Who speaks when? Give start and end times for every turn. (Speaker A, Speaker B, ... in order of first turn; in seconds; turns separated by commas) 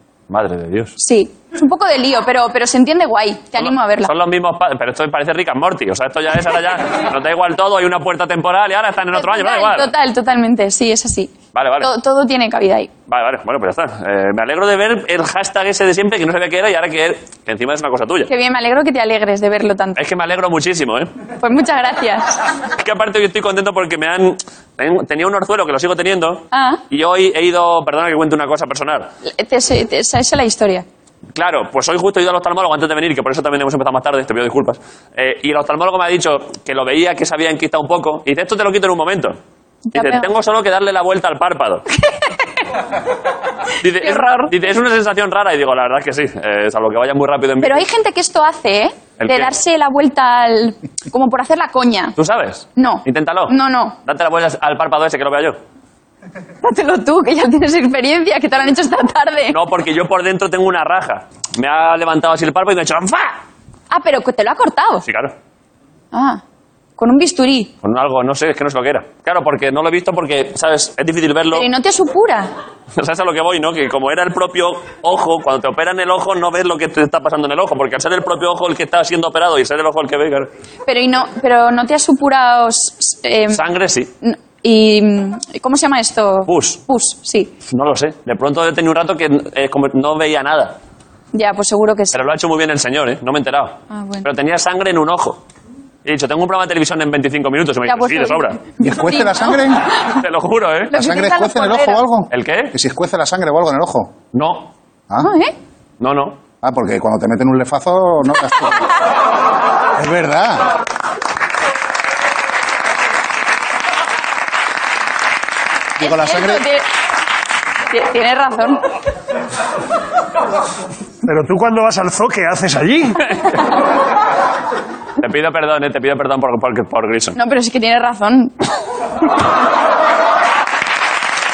Speaker A: 0.3-0.9, Speaker B: 1.0-4.1, Speaker A: 3.6-9.9, Speaker B: 9.1-12.9, Speaker A: 11.5-11.9, Speaker A: 13.1-18.3, Speaker B: 18.3-20.0, Speaker A: 20.0-21.1, Speaker B: 21.4-22.4, Speaker A: 22.8-29.1, Speaker B: 26.5-26.8, Speaker B: 29.2-30.9, Speaker A: 31.4-39.4, Speaker B: 39.9-40.3, Speaker A: 39.9-41.8, Speaker A: 43.8-47.8, Speaker B: 44.0-44.5, Speaker B: 47.6-52.1, Speaker A: 49.2-49.5, Speaker A: 52.2-53.5, Speaker B: 52.8-54.0, Speaker A: 54.0-55.6, Speaker B: 56.6-59.6, Speaker A: 59.5-63.4, Speaker B: 63.9-65.0, Speaker A: 65.0-65.3, Speaker B: 66.1-66.4, Speaker B: 67.0-67.7, Speaker A: 67.8-71.7, Speaker B: 71.5-72.5, Speaker A: 73.0-80.5, Speaker B: 80.9-83.6, Speaker A: 83.5-84.1, Speaker B: 84.2-87.5, Speaker A: 86.5-86.8, Speaker A: 87.7-90.8, Speaker B: 91.3-92.2, Speaker A: 92.1-95.4, Speaker B: 93.9-94.3, Speaker A: 96.0-98.6, Speaker B: 97.8-100.1, Speaker C: 98.8-99.8, Speaker A: 100.1-101.0, Speaker B: 100.9-102.1, Speaker C: 100.9-104.1, Speaker A: 102.3-102.7, Speaker A: 104.3-104.7, Speaker B: 105.2-105.5, Speaker A: 106.0-106.4, Speaker C: 106.6-108.8, Speaker C: 110.0-110.7, Speaker B: 116.0-116.9, Speaker C: 116.0-116.6, Speaker B: 117.9-118.8, Speaker D: 121.2-123.2, Speaker A: 125.2-127.3, Speaker B: 127.3-128.5